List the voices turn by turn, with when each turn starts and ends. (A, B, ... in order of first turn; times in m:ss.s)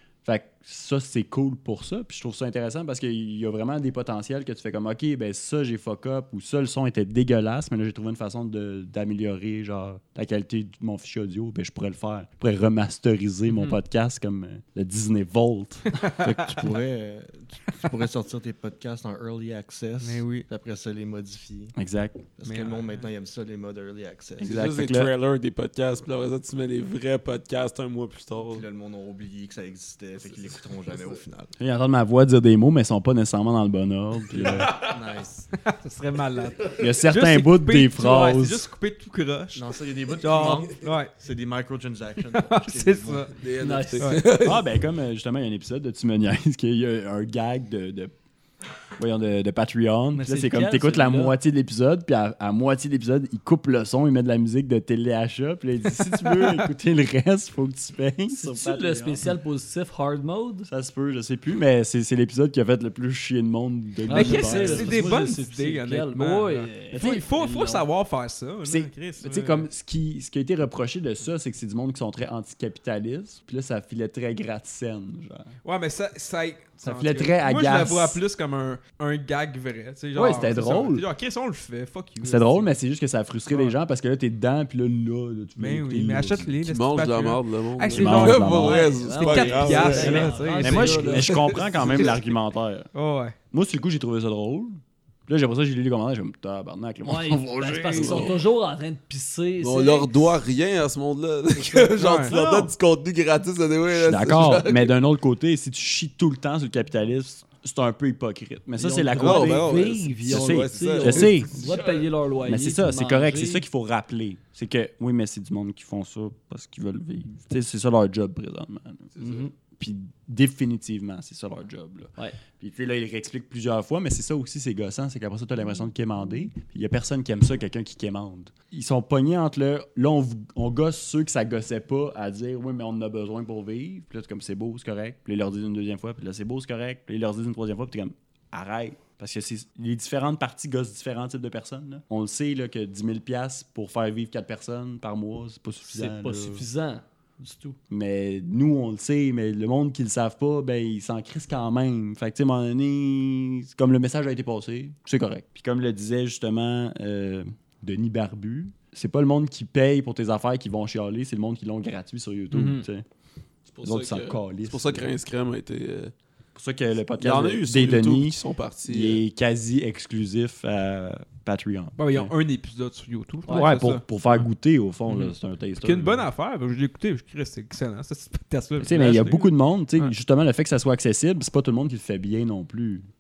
0:00.2-0:16.0 A
0:13.5-0:13.8 B
0:16.2-0:21.7 C
0:20.0-0:20.5 B
0:21.8-0:22.2 A
0:22.4-0:24.6 C
0:22.4-0:23.1 B
0:24.4-0:25.1 A
0:24.4-0:28.7 D
0:28.4-0:31.5 C
0:30.3-0:31.1 D
0:31.6-0:34.7 A
0:34.3-0:35.5 C
0:34.5-0:41.1 B
0:36.8-0:38.6 A
0:39.6-0:43.4 C
0:42.3-0:43.4 B
0:43.4-0:44.7 D
0:43.6-0:44.2 E
0:44.0-0:44.2 B
0:44.4-0:48.1 A
0:49.0-0:59.3 A
0:50.2-0:51.4 E
0:56.3-0:56.6 B
0:58.4-1:00.7 E
1:00.7-1:05.1 A
1:04.1-1:07.8 E
1:04.1-1:09.7 B
1:06.9-1:07.6 A
1:08.6-1:15.5 A
1:15.6-1:22.7 B
1:16.8-1:18.2 A
1:20.2-1:21.1 A
1:22.2-1:26.6 A
1:25.6-1:31.3 B
1:26.6-1:30.4 D
1:27.9-1:28.9 A
1:28.6-1:31.4 E
1:29.8-1:32.9 A
1:31.4-1:32.1 D
1:32.9-1:33.4 B
1:33.5-1:38.3 A
1:37.1-1:40.1 E
1:38.0-1:38.3 D
1:39.6-1:44.9 D
1:42.0-1:42.3 B
1:42.3-1:42.7 A
1:43.9-1:51.6 A
1:48.8-1:53.6 E
1:49.2-1:51.8 D
1:52.4-2:26.6 A
1:59.2-1:59.5 D
1:59.2-1:59.5 E
2:25.9-2:27.8 E
2:27.9-2:43.1 A
2:42.5-2:42.9 B
2:43.7-2:46.1 D
2:43.8-2:45.1 A
2:46.6-2:52.3 A
2:47.2-2:49.2 D
2:52.0-2:54.5 B
2:53.5-2:53.7 E
2:53.5-2:56.3 A
2:55.1-3:00.1 B
2:58.8-3:03.1 A